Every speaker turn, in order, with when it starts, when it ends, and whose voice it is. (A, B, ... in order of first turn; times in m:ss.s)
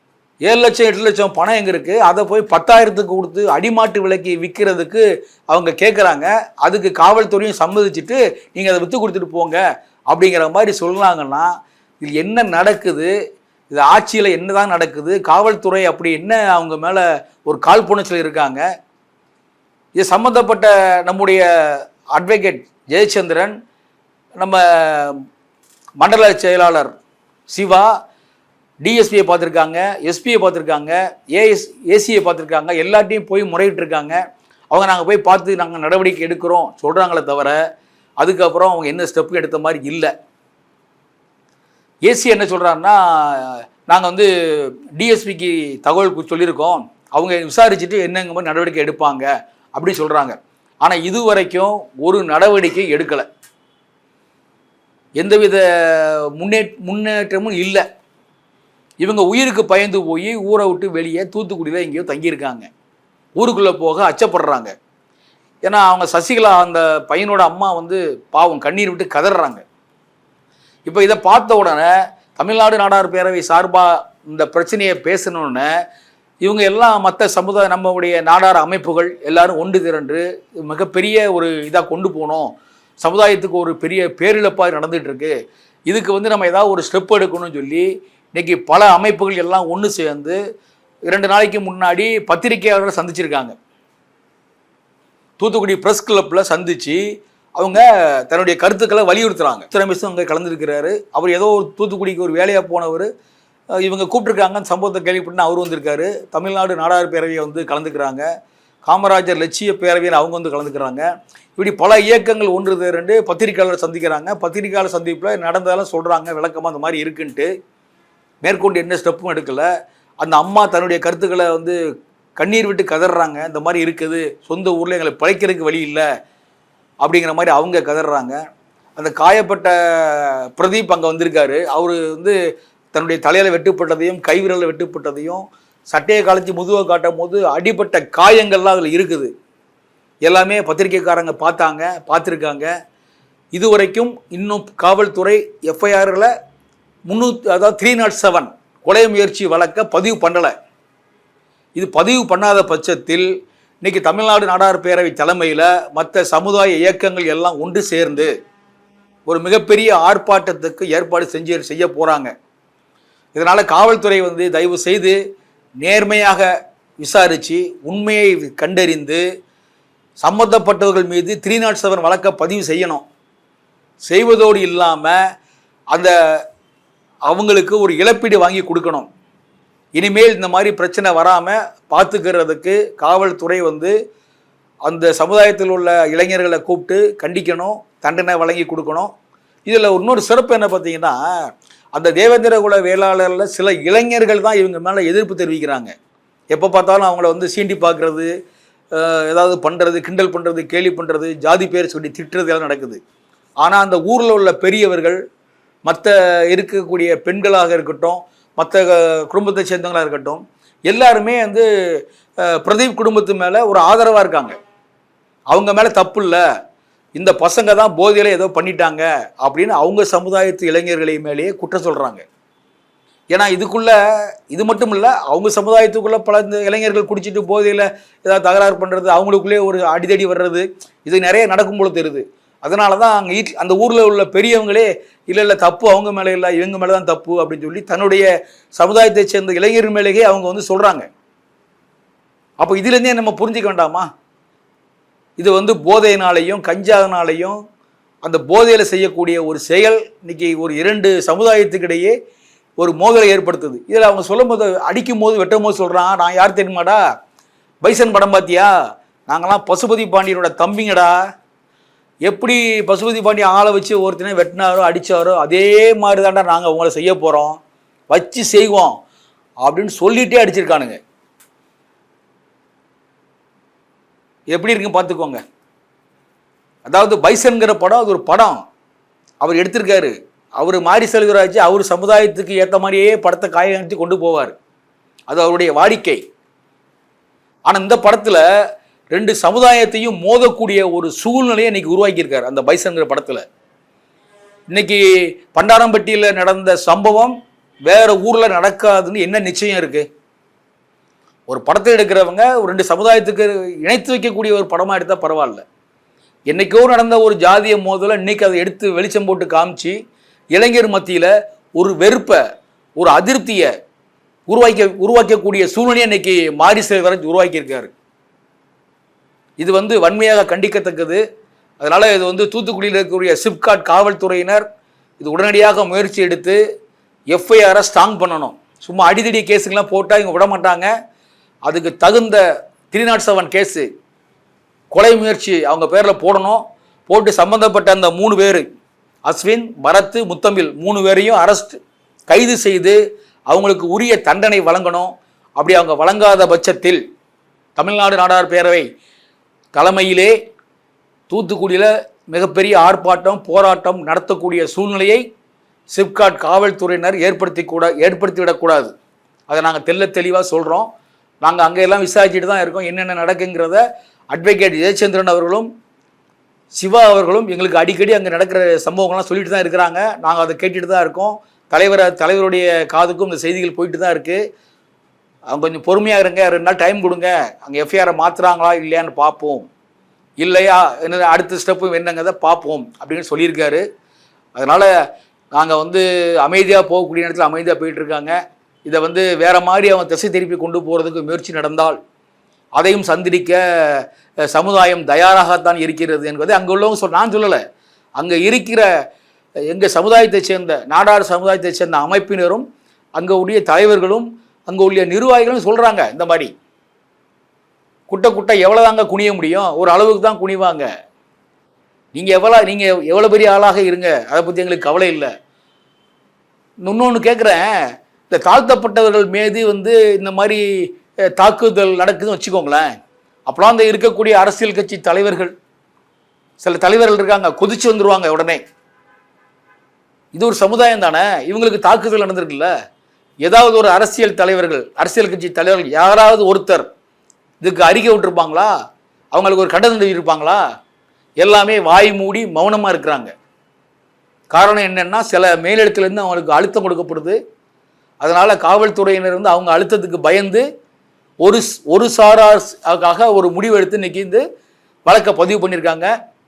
0:00.4-0:13.1 A
0:13.7-0:18.6 A
0:20.0-0:23.5 A
0:24.4-0:25.2 A
0:26.0-0:26.9 A
0:27.5-0:27.9 A
0:28.8-0:34.2 A
0:34.7-0:37.6 A
0:38.2-0:40.1 A
0:42.0-0:44.3 A
0:45.0-0:53.2 A
0:55.2-0:57.8 A
0:59.0-1:02.7 A
1:03.4-1:04.7 A
1:05.6-1:09.6 A
1:10.9-1:15.7 A
1:16.4-1:22.5 A
1:23.0-1:25.3 A
1:25.9-1:30.4 A
1:31.1-1:33.5 A
1:35.4-1:37.0 A
1:37.6-1:43.1 A
1:43.8-1:48.2 A
1:48.9-1:57.5 A
1:58.4-1:59.7 A
2:00.2-2:01.8 A
2:02.4-2:06.0 A
2:07.0-2:08.4 A
2:09.0-2:12.4 A
2:12.9-2:19.3 A
2:20.2-2:22.7 A
2:23.5-2:26.3 A
2:27.1-2:30.5 A
2:31.8-2:33.3 A
2:33.8-2:38.3 A
2:39.3-2:42.3 A
2:43.4-2:45.2 A
2:45.8-2:46.5 A
2:47.0-2:49.2 A
2:50.2-2:53.1 A
2:54.1-2:55.2 A
2:57.3-2:59.1 A
3:00.0-3:03.9 A
3:04.9-3:09.1 A
3:09.7-3:11.2 A
3:12.0-3:15.9 A
3:16.5-3:18.3 A
3:19.0-3:23.0 A
3:23.6-3:25.2 A
3:25.9-3:31.7 A
3:32.4-3:34.5 A
3:35.5-3:36.4 A
3:37.2-3:42.2 A
3:43.3-3:44.0 A
3:44.5-3:58.2 A
3:58.8-4:01.1 A
4:02.6-4:04.1 A
4:05.4-4:07.6 A
4:08.2-4:12.1 A
4:12.8-4:17.0 A
4:17.8-4:18.7 A
4:19.3-4:21.2 A
4:22.2-4:27.6 A
4:28.1-4:29.0 A
4:29.6-4:31.0 A
4:34.5-4:35.4 A
4:36.9-4:38.6 A
4:39.4-4:44.6 A
4:45.3-4:46.2 A
4:47.7-4:48.4 A
4:49.1-4:53.4 A
4:54.7-5:00.0 A
5:01.5-5:05.6 A
5:06.5-5:10.0 A
5:10.5-5:12.4 A
5:13.0-5:13.7 A
5:14.5-5:17.9 A
5:19.6-5:21.2 A
5:21.8-5:24.6 A
5:25.2-5:26.6 A
5:27.3-5:30.9 A
5:31.7-5:33.9 A
5:34.9-5:38.7 A
5:39.2-5:41.8 A
5:42.3-5:43.0 A
5:43.5-5:47.0 A
5:47.8-5:48.9 A
5:49.7-5:50.3 A
5:51.3-5:55.2 A
5:55.9-5:58.9 A
5:59.5-6:00.9 A
6:01.4-6:05.7 A
6:06.8-6:14.4 A
6:15.5-6:19.7 A
6:20.4-6:23.8 A
6:24.6-6:24.9 A
6:25.5-6:32.0 A
6:32.8-6:37.6 A
6:38.2-6:38.9 A
6:39.7-6:42.6 A
6:43.2-6:46.5 A
6:48.1-6:50.9 A
6:52.2-6:55.3 A
6:56.8-6:57.7 A
6:58.3-7:00.6 A
7:01.3-7:02.9 A
7:03.5-7:05.5 A
7:06.6-7:08.6 A
7:10.3-7:12.7 A
7:13.4-7:16.9 A
7:17.6-7:18.7 A
7:19.3-7:20.6 A
7:21.4-7:23.3 A
7:24.5-7:27.4 A
7:28.2-7:30.6 A
7:31.4-7:34.4 A
7:35.0-7:36.1 A